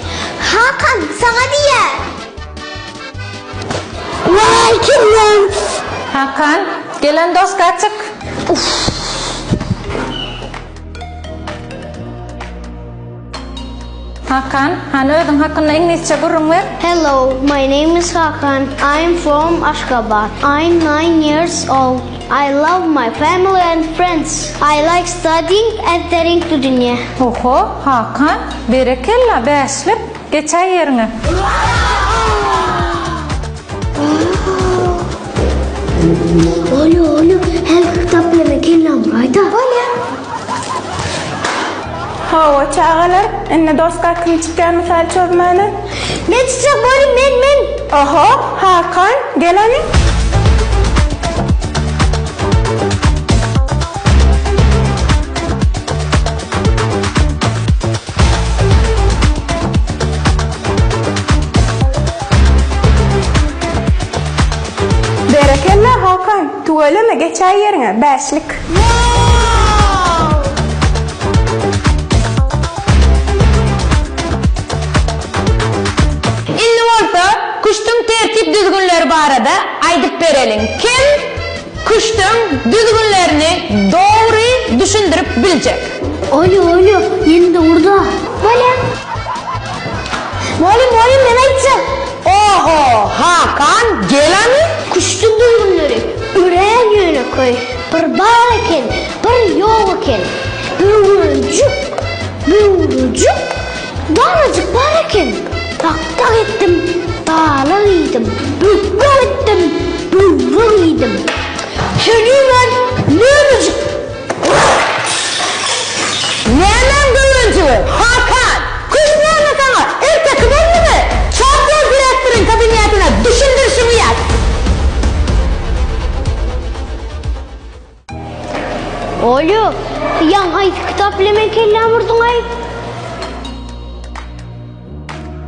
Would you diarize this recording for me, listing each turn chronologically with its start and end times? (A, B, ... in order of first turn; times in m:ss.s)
0:00.4-0:01.7 A
0:04.3-0:05.4 A
0:06.1-0:08.1 B
0:14.3-0:16.7 B
0:16.8-0:27.0 A
0:27.2-0:31.1 B
0:34.0-0:35.0 A
0:36.4-0:39.5 A
0:39.5-0:39.9 C
0:42.3-0:45.7 C
0:46.2-0:47.8 A
0:47.9-0:49.8 C
1:05.3-1:08.6 C
1:16.6-1:21.3 D
1:21.8-1:25.9 D
1:26.3-1:28.8 A
1:30.6-1:31.8 A
1:32.3-1:34.7 D
1:34.9-1:43.4 A
1:44.1-1:51.2 A
1:52.0-1:53.8 A
1:56.5-2:04.2 E
2:09.2-2:12.5 A